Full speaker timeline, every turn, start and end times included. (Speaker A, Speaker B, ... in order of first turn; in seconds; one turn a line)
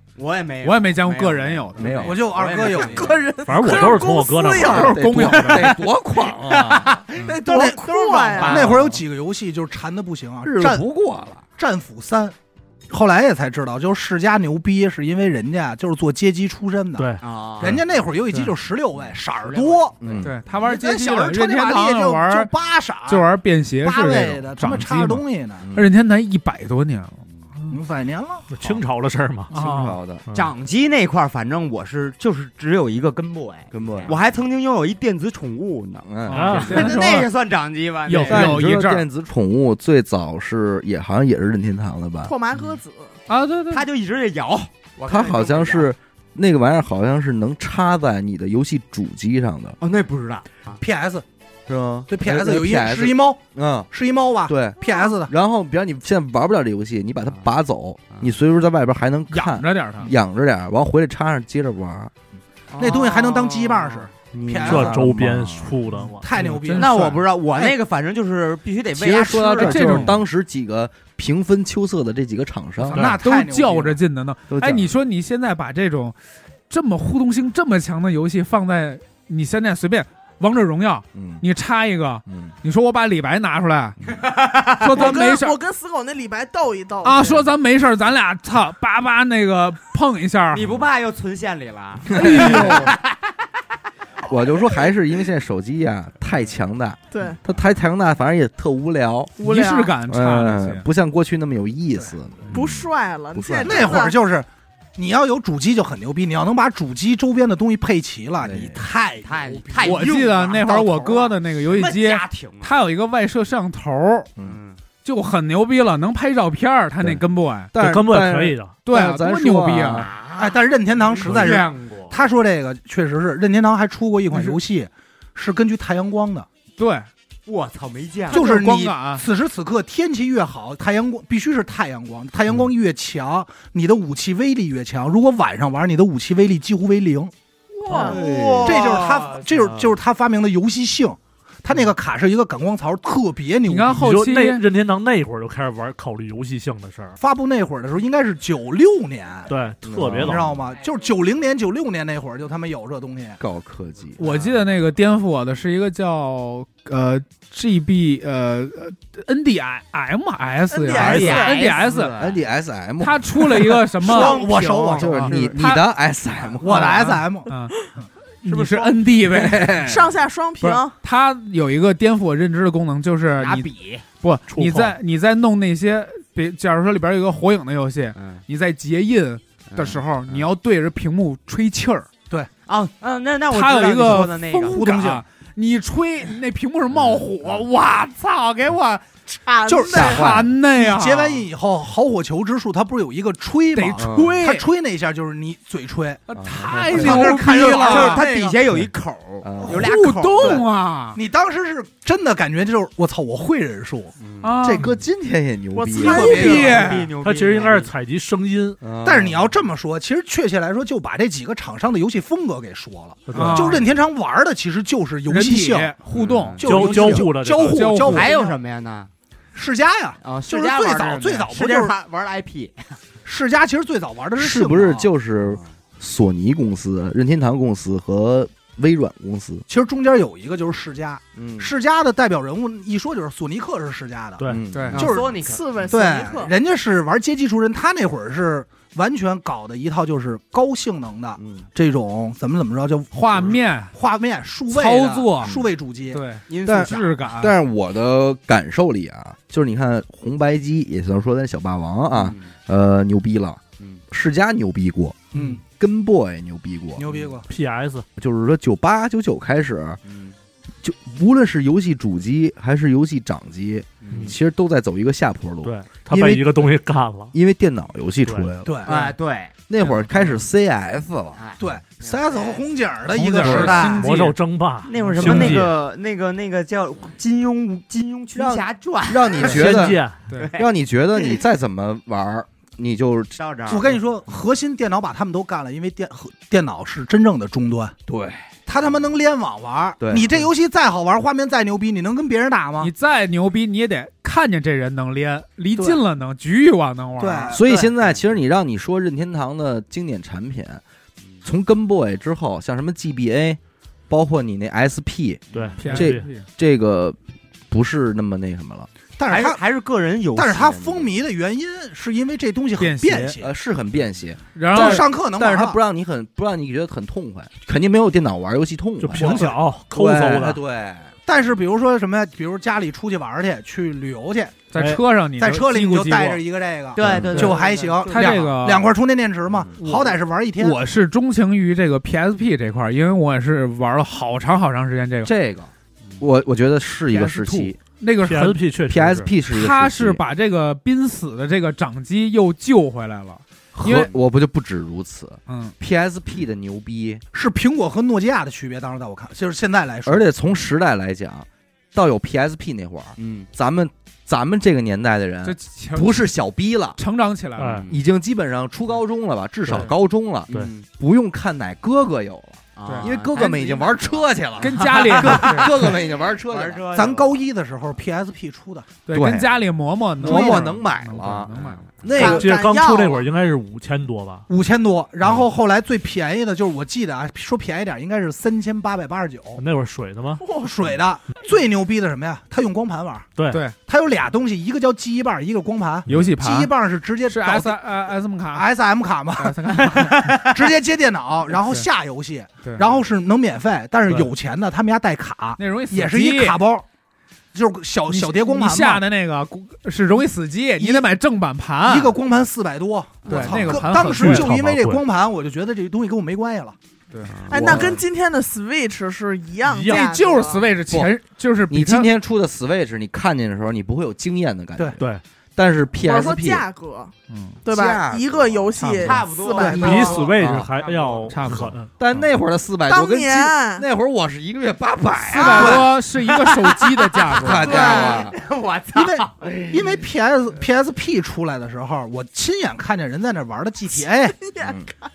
Speaker A: 0.2-3.3
Speaker B: 0.6-2.1
Speaker C: 1.8-2.2
Speaker D: 2.0-3.1
Speaker E: 2.8-4.9
Speaker F: 3.5-5.5
Speaker C: 4.5-7.0
Speaker B: 4.6-5.8
Speaker A: 6.4-8.9
Speaker D: 7.3-10.9
Speaker E: 7.5-8.7
Speaker C: 10.4-11.4
Speaker D: 11.6-12.3
Speaker D: 12.9-20.1
Speaker F: 17.0-17.2
Speaker A: 17.2-17.9
Speaker A: 19.4-20.2
Speaker C: 20.0-20.4
Speaker B: 20.2-22.5
Speaker D: 20.6-23.3
Speaker B: 23.1-27.8
Speaker D: 23.8-25.7
Speaker C: 25.6-25.9
Speaker D: 27.7-28.7
Speaker F: 28.5-29.5
Speaker B: 29.5-30.0
Speaker C: 29.5-30.2
Speaker F: 30.3-30.5
Speaker A: 30.3-38.8
Speaker C: 33.7-34.2
Speaker C: 36.0-36.7
Speaker B: 36.3-37.3
Speaker F: 36.3-36.9
Speaker B: 38.1-39.0
Speaker C: 38.3-42.3
Speaker E: 42.2-43.1
Speaker B: 43.3-43.9
Speaker A: 43.7-45.9
Speaker C: 45.1-49.8
Speaker A: 49.8-50.8
Speaker D: 50.8-51.2
Speaker C: 51.7-53.9
Speaker D: 52.1-55.3
Speaker C: 54.5-62.1
Speaker B: 59.3-60.1
Speaker A: 62.7-64.1
Speaker D: 62.8-65.0
Speaker C: 64.3-65.8
Speaker F: 64.6-66.3
Speaker D: 66.2-67.7
Speaker B: 66.4-67.2
Speaker A: 66.7-70.1
Speaker C: 69.0-73.1
Speaker B: 69.6-70.2
Speaker B: 72.8-76.2
Speaker D: 72.9-74.0
Speaker C: 74.5-74.9
Speaker B: 76.7-84.0
Speaker C: 81.1-81.4
Speaker C: 82.3-82.5
Speaker A: 84.1-85.0
Speaker B: 84.8-85.6
Speaker E: 84.9-87.3
Speaker B: 87.0-90.7
Speaker A: 90.5-93.2
Speaker C: 92.1-92.9
Speaker B: 92.1-92.9
Speaker C: 94.2-99.3
Speaker E: 97.1-97.4
Speaker E: 99.4-100.0
Speaker B: 99.4-100.9
Speaker C: 100.1-103.9
Speaker F: 102.5-102.8
Speaker E: 102.5-104.2
Speaker D: 103.6-111.4
Speaker C: 108.4-108.8
Speaker A: 109.2-110.7
Speaker B: 109.8-114.3
Speaker A: 111.6-112.8
Speaker A: 114.4-114.8
Speaker B: 115.0-117.7
Speaker C: 117.0-120.1
Speaker F: 117.8-118.8
Speaker B: 118.8-120.1
Speaker A: 119.9-122.2
Speaker D: 120.4-126.5
Speaker B: 121.3-121.7
Speaker B: 124.3-124.6
Speaker B: 126.8-127.1
Speaker A: 127.5-128.6
Speaker B: 128.3-129.2
Speaker D: 128.3-137.3
Speaker B: 137.9-138.5
Speaker E: 137.9-138.2
Speaker A: 137.9-139.5
Speaker C: 138.1-138.8
Speaker D: 138.6-144.1
Speaker B: 143.7-144.7
Speaker F: 143.9-147.2
Speaker D: 147.2-149.5
Speaker F: 149.5-150.5
Speaker C: 149.8-150.5
Speaker D: 150.1-153.4
Speaker C: 153.4-154.2
Speaker B: 154.2-162.1
Speaker A: 154.2-154.5
Speaker E: 160.8-161.7
Speaker A: 160.8-162.4
Speaker C: 162.2-164.0
Speaker B: 163.0-165.9
Speaker A: 164.0-165.6
Speaker D: 164.1-165.2
Speaker C: 165.0-167.0
Speaker D: 166.6-167.5
Speaker B: 166.7-167.8
Speaker B: 168.4-169.7
Speaker A: 168.4-169.2
Speaker C: 169.3-170.1
Speaker E: 169.8-170.9
Speaker B: 170.6-182.1
Speaker A: 173.4-174.1
Speaker F: 174.5-174.9
Speaker A: 178.2-178.4
Speaker A: 179.7-180.5
Speaker A: 182.7-184.8
Speaker B: 183.5-189.1
Speaker D: 184.7-185.2
Speaker A: 186.9-187.6
Speaker E: 189.6-190.2
Speaker D: 189.7-196.2
Speaker B: 189.9-191.5
Speaker C: 189.9-190.5
Speaker B: 193.7-194.7
Speaker C: 194.0-194.3
Speaker B: 196.3-198.3
Speaker C: 196.4-197.3
Speaker D: 196.9-198.6
Speaker A: 196.9-200.7
Speaker C: 199.4-199.9
Speaker B: 199.7-201.2
Speaker D: 200.4-204.1
Speaker A: 204.2-204.6
Speaker B: 204.4-204.9
Speaker C: 204.6-206.5
Speaker E: 205.8-206.7
Speaker D: 206.0-207.1
Speaker B: 206.0-207.1
Speaker A: 206.1-207.9
Speaker F: 207.2-208.8
Speaker C: 208.8-209.5
Speaker D: 209.0-216.0
Speaker F: 213.3-213.9
Speaker B: 213.3-213.8
Speaker B: 215.3-217.1
Speaker A: 216.1-217.2
Speaker D: 216.6-218.4
Speaker F: 216.6-218.1
Speaker B: 217.7-218.5
Speaker A: 218.0-219.1
Speaker D: 219.6-221.9
Speaker A: 220.2-223.0
Speaker D: 223.2-225.1
Speaker C: 224.4-229.7
Speaker D: 229.7-246.3
Speaker C: 231.4-231.7
Speaker C: 234.5-235.1
Speaker B: 234.7-235.0
Speaker A: 234.9-236.1
Speaker E: 235.4-236.5
Speaker C: 241.4-241.7
Speaker B: 243.1-243.9
Speaker B: 244.7-245.5
Speaker B: 246.1-247.6
Speaker A: 246.5-247.2
Speaker C: 246.7-257.1
Speaker A: 252.1-252.5
Speaker D: 255.3-255.6
Speaker D: 257.0-257.5
Speaker F: 257.5-258.1
Speaker C: 258.2-260.0
Speaker A: 260.0-260.4
Speaker C: 260.8-266.6
Speaker A: 264.0-264.4
Speaker F: 264.1-264.4
Speaker F: 265.6-267.3
Speaker C: 267.3-268.9
Speaker F: 268.2-268.5
Speaker D: 268.6-269.1
Speaker A: 268.9-269.6
Speaker C: 269.7-271.4
Speaker A: 271.3-272.6
Speaker D: 271.6-274.1
Speaker B: 273.1-274.4
Speaker C: 273.4-273.9
Speaker F: 273.5-275.8
Speaker A: 274.9-280.7
Speaker B: 274.9-275.6
Speaker C: 278.4-283.4
Speaker F: 279.4-280.2
Speaker A: 283.4-284.0
Speaker D: 283.7-288.0
Speaker C: 288.1-288.4
Speaker D: 288.7-292.9
Speaker C: 290.0-290.3
Speaker B: 292.8-297.6
Speaker D: 297.2-297.8
Speaker C: 297.5-300.8
Speaker A: 297.7-298.2
Speaker C: 301.4-307.2
Speaker A: 305.5-305.9
Speaker F: 305.5-306.2
Speaker B: 305.8-306.5
Speaker C: 307.7-308.9
Speaker D: 309.2-309.6
Speaker A: 309.3-311.1
Speaker D: 310.3-313.5
Speaker B: 312.8-313.4
Speaker C: 313.4-321.1
Speaker B: 314.6-315.1
Speaker D: 314.7-315.8
Speaker F: 319.0-320.6
Speaker D: 319.1-319.6
Speaker D: 321.3-324.6
Speaker B: 324.7-326.4
Speaker F: 324.8-325.0
Speaker D: 325.4-330.8
Speaker A: 326.9-328.6
Speaker C: 327.0-327.3
Speaker B: 327.3-328.9
Speaker B: 329.8-335.3
Speaker C: 335.2-337.8
Speaker B: 337.1-338.6
Speaker F: 338.2-339.3
Speaker C: 338.9-340.2
Speaker B: 339.5-344.1
Speaker C: 343.7-347.2
Speaker B: 345.5-345.7
Speaker D: 347.3-350.3
Speaker C: 350.1-357.0
Speaker A: 353.2-353.5
Speaker B: 355.4-356.3
Speaker B: 357.0-357.8
Speaker F: 357.6-357.9
Speaker A: 357.8-358.0
Speaker C: 357.9-366.8
Speaker A: 360.5-360.9
Speaker A: 362.8-367.4
Speaker B: 362.9-363.1
Speaker B: 364.6-365.7
Speaker D: 366.9-368.9
Speaker B: 369.1-371.8
Speaker C: 369.1-369.5
Speaker C: 370.2-372.5
Speaker D: 370.2-370.7
Speaker A: 371.5-372.1
Speaker D: 372.1-372.5
Speaker E: 372.1-373.2
Speaker F: 372.2-374.5
Speaker D: 374.5-379.6
Speaker F: 379.6-380.4
Speaker E: 380.4-380.7
Speaker D: 380.6-383.3
Speaker F: 383.4-383.6
Speaker B: 383.5-383.8
Speaker D: 383.8-387.8
Speaker B: 386.1-386.7
Speaker B: 387.3-388.7
Speaker D: 388.5-396.9
Speaker B: 389.4-390.4
Speaker B: 391.5-391.9
Speaker B: 395.6-396.6
Speaker D: 397.5-399.0
Speaker B: 398.1-402.1
Speaker D: 400.8-401.1
Speaker D: 401.8-406.8
Speaker B: 403.3-404.5
Speaker A: 403.3-403.6
Speaker F: 403.8-405.0
Speaker A: 407.3-407.9
Speaker E: 407.5-410.6
Speaker C: 407.5-408.0
Speaker F: 409.6-410.1
Speaker B: 409.9-412.1
Speaker C: 411.7-415.0
Speaker C: 415.6-416.7
Speaker E: 416.0-420.1
Speaker B: 417.3-417.6
Speaker C: 417.7-418.8
Speaker B: 418.8-419.2
Speaker A: 419.0-421.4
Speaker D: 419.6-420.2
Speaker F: 419.7-421.9
Speaker C: 420.4-420.7
Speaker B: 421.3-421.8
Speaker C: 422.0-425.9
Speaker E: 422.9-423.9
Speaker B: 425.3-427.8
Speaker D: 425.5-425.9
Speaker A: 426.1-430.0
Speaker C: 427.4-428.4
Speaker D: 428.9-434.4
Speaker E: 434.4-434.8
Speaker C: 434.6-434.9